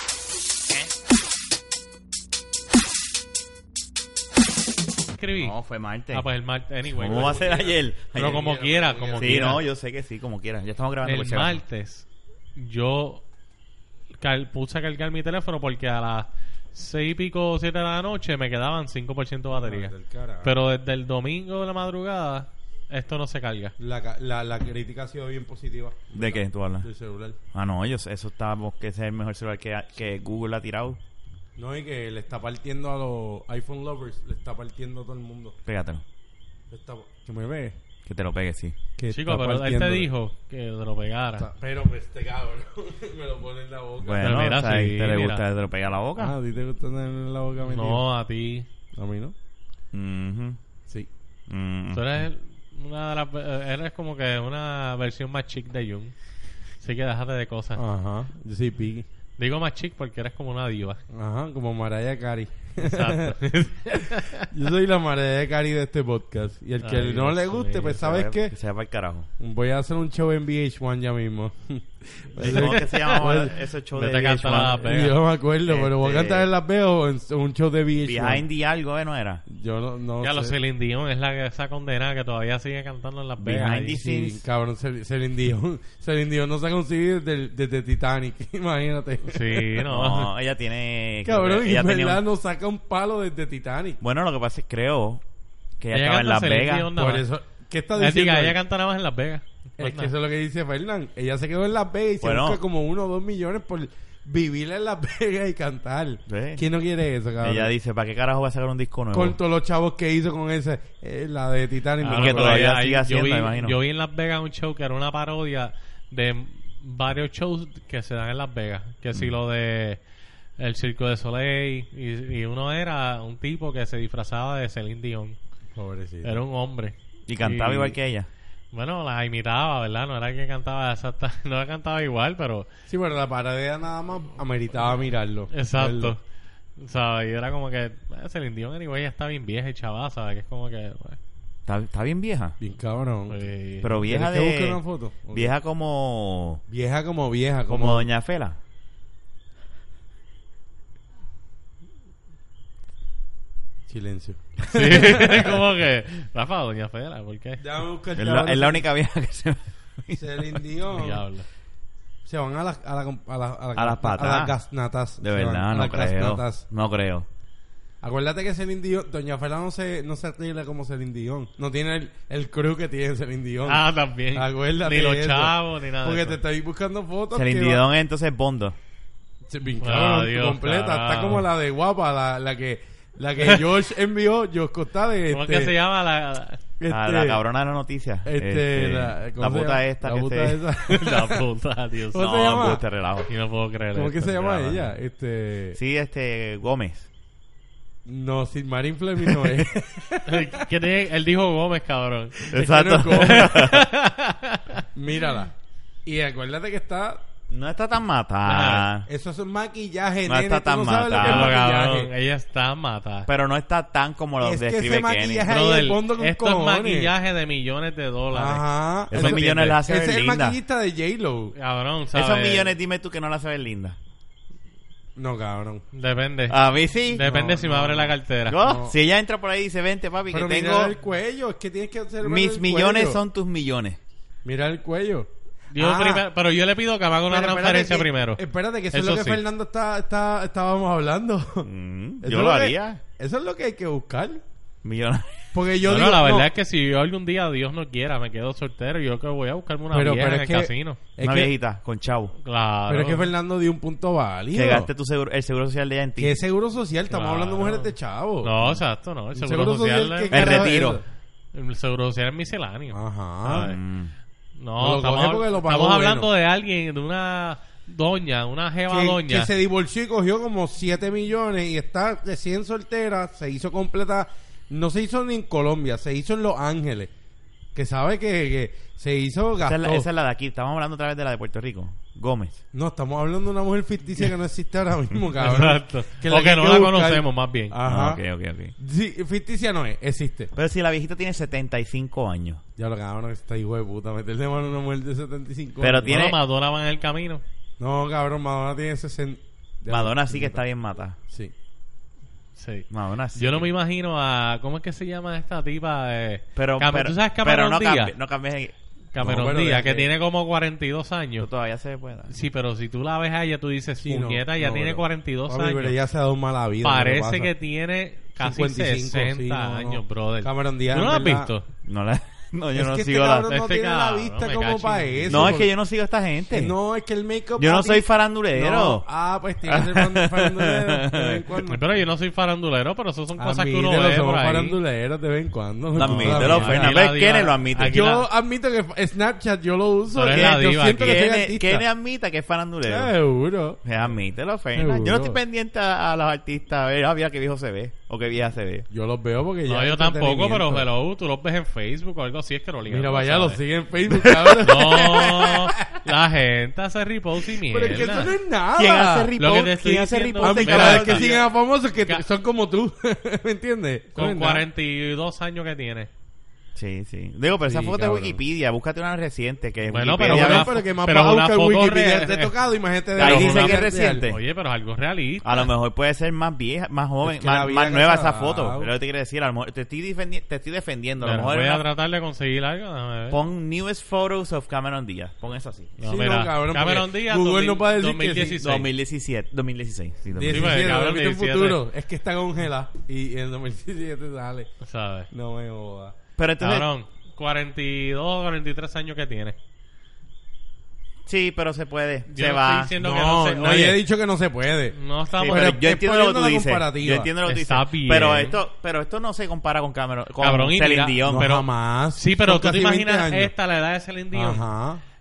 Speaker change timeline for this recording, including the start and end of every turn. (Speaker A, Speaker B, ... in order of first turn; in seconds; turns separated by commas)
Speaker A: 5.2-5.5, Speaker B: 5.4-6.3, Speaker A: 6.1-7.5, Speaker B: 7.0-8.4, Speaker C: 7.0-9.6, Speaker A: 8.1-9.6, Speaker B: 9.2-11.6, Speaker A: 11.0-13.2, Speaker A: 14.2-23.7, Speaker C: 19.5-20.5, Speaker C: 23.8-27.4, Speaker B: 26.1-26.9, Speaker B: 27.5-31.0, Speaker C: 31.6-35.6, Speaker B: 35.6-36.0, Speaker C: 36.7-37.8, Speaker B: 38.1-38.8, Speaker C: 39.0-40.1, Speaker A: 39.1-41.5, Speaker C: 41.4-44.5, Speaker B: 44.0-46.4, Speaker A: 44.2-45.4, Speaker C: 46.2-48.0, Speaker A: 47.7-48.7, Speaker C: 49.0-49.3, Speaker B: 49.9-50.6, Speaker B: 51.5-52.2, Speaker A: 51.9-56.1, Speaker A: 56.8-57.8, Speaker C: 57.8-59.1, Speaker A: 59.4-61.0, Speaker C: 61.1-68.5, Speaker A: 62.8-64.5, Speaker A: 66.8-68.0, Speaker B: 68.0-69.3, Speaker C: 69.4-73.6, Speaker B: 72.4-74.9, Speaker A: 72.4-73.3, Speaker A: 73.9-75.2, Speaker C: 74.8-78.4, Speaker B: 75.7-76.5, Speaker B: 78.0-79.4, Speaker C: 79.5-80.5, Speaker A: 80.2-84.0, Speaker B: 83.4-84.4, Speaker C: 84.0-89.7, Speaker A: 89.3-90.3, Speaker B: 89.9-92.2, Speaker C: 91.2-94.0, Speaker B: 94.0-95.2, Speaker B: 95.8-96.9, Speaker A: 95.9-97.2, Speaker C: 97.0-98.6, Speaker A: 98.0-100.1, Speaker C: 99.8-107.7, Speaker B: 102.2-102.6, Speaker B: 106.3-106.6, Speaker B: 107.4-109.4, Speaker C: 109.1-112.6, Speaker A: 112.0-120.0, Speaker B: 112.1-113.8, Speaker A: 120.6-125.4, Speaker C: 125.8-126.4, Speaker A: 126.2-128.0, Speaker B: 127.3-128.3, Speaker A: 128.7-132.7, Speaker C: 132.9-136.1, Speaker A: 135.5-136.2, Speaker A: 136.8-141.2, Speaker B: 141.7-142.6, Speaker C: 142.6-143.4, Speaker A: 143.3-144.0, Speaker B: 143.8-144.8, Speaker C: 144.0-145.5, Speaker B: 145.3-146.6, Speaker C: 146.7-148.1, Speaker B: 147.7-148.6, Speaker C: 153.9-155.6, Speaker A: 154.7-157.6, Speaker C: 157.6-158.8, Speaker B: 158.2-160.6, Speaker C: 160.1-161.2, Speaker A: 160.9-161.5, Speaker C: 162.2-166.7, Speaker B: 163.8-164.5, Speaker B: 165.2-167.3, Speaker C: 168.0-173.8, Speaker A: 173.7-176.4, Speaker C: 174.3-177.8, Speaker B: 177.3-178.8, Speaker C: 179.5-185.7, Speaker A: 179.8-181.5, Speaker A: 185.3-186.6, Speaker C: 186.8-187.4, Speaker B: 186.9-190.6, Speaker C: 188.2-191.4, Speaker A: 190.9-192.5, Speaker C: 192.1-192.8, Speaker B: 192.2-193.3, Speaker A: 193.3-194.8, Speaker C: 193.9-195.8, Speaker B: 195.8-197.1, Speaker C: 198.1-200.7, Speaker B: 199.3-199.6, Speaker A: 200.3-202.4, Speaker C: 202.5-203.6, Speaker B: 202.5-203.9, Speaker A: 203.2-204.8, Speaker C: 204.9-205.5, Speaker C: 206.1-207.2, Speaker B: 207.5-209.1, Speaker A: 208.4-208.9, Speaker C: 209.1-212.1, Speaker B: 210.3-211.6, Speaker A: 211.2-213.3, Speaker B: 213.3-215.5, Speaker C: 214.4-217.1, Speaker A: 215.5-219.8, Speaker C: 218.3-221.6, Speaker B: 219.1-220.6, Speaker A: 221.6-222.7, Speaker B: 222.1-224.0, Speaker C: 225.2-225.8, Speaker A: 225.9-226.6, Speaker B: 226.5-227.2, Speaker A: 227.1-228.6, Speaker C: 227.2-228.9, Speaker B: 228.5-230.9, Speaker C: 230.3-233.2, Speaker B: 232.2-234.0, Speaker C: 234.4-236.2, Speaker A: 235.7-238.4, Speaker C: 237.3-241.7, Speaker A: 238.9-239.4, Speaker B: 241.6-243.0, Speaker C: 242.2-244.4, Speaker B: 244.8-245.3, Speaker C: 245.5-246.5, Speaker A: 245.8-251.0, Speaker C: 249.9-251.5, Speaker B: 251.2-252.3, Speaker A: 252.4-253.3, Speaker C: 252.9-254.9, Speaker B: 254.5-256.4, Speaker C: 256.2-258.7, Speaker A: 257.1-257.9, Speaker A: 258.4-260.8, Speaker C: 259.3-261.0, Speaker B: 260.3-261.0, Speaker A: 261.5-263.8, Speaker C: 262.9-263.7, Speaker B: 263.5-264.1, Speaker A: 264.6-269.5, Speaker C: 264.8-266.3, Speaker C: 268.9-277.1, Speaker C: 277.8-280.1, Speaker B: 279.6-282.6, Speaker C: 282.7-288.2, Speaker A: 285.4-287.7, Speaker B: 287.9-288.7, Speaker C: 288.8-290.5, Speaker B: 290.6-292.6, Speaker C: 292.8-296.1, Speaker B: 295.8-296.4, Speaker A: 296.1-297.4, Speaker C: 297.8-300.6, Speaker B: 299.9-301.2, Speaker A: 302.6-308.1, Speaker B: 302.9-303.7, Speaker B: 306.6-308.8, Speaker A: 309.1-311.5, Speaker C: 309.2-310.1, Speaker B: 311.4-312.3, Speaker A: 312.3-316.0, Speaker C: 314.0-317.5, Speaker A: 316.8-321.7, Speaker C: 318.4-321.5, Speaker B: 321.9-323.5, Speaker C: 322.8-325.7, Speaker A: 323.4-325.6, Speaker B: 325.3-326.8, Speaker C: 326.5-331.8, Speaker B: 327.6-329.0, Speaker B: 329.7-331.4, Speaker A: 331.6-334.8, Speaker C: 333.4-336.9, Speaker B: 335.9-338.0, Speaker A: 336.0-338.3, Speaker C: 337.9-341.9, Speaker A: 340.1-341.2, Speaker B: 340.3-343.1, Speaker C: 342.8-343.8, Speaker B: 343.8-348.9, Speaker C: 344.8-345.4, Speaker C: 348.9-350.9, Speaker A: 349.7-353.6, Speaker C: 352.9-355.9, Speaker A: 354.6-358.3, Speaker C: 357.6-359.3, Speaker B: 358.8-361.3, Speaker A: 359.4-361.5, Speaker C: 360.4-364.6, Speaker A: 364.2-366.1, Speaker B: 366.8-370.7, Speaker C: 367.6-368.4, Speaker A: 369.9-372.5, Speaker C: 370.2-374.3, Speaker B: 373.2-374.4, Speaker A: 373.2-375.7, Speaker B: 375.4-381.8, Speaker C: 377.2-378.9, Speaker A: 381.2-383.4, Speaker B: 383.3-385.9, Speaker A: 386.0-388.9, Speaker C: 386.0-388.6, Speaker B: 388.6-390.7, Speaker C: 390.3-394.7, Speaker A: 390.5-391.8, Speaker A: 394.8-395.3, Speaker C: 395.3-396.1, Speaker B: 396.4-396.9, Speaker A: 396.6-399.6, Speaker B: 401.3-402.9, Speaker A: 402.3-404.0, Speaker C: 403.0-407.3, Speaker A: 404.9-405.8, Speaker B: 405.4-411.5, Speaker A: 407.4-408.6, Speaker A: 410.4-414.6, Speaker C: 411.2-413.5, Speaker C: 414.3-415.0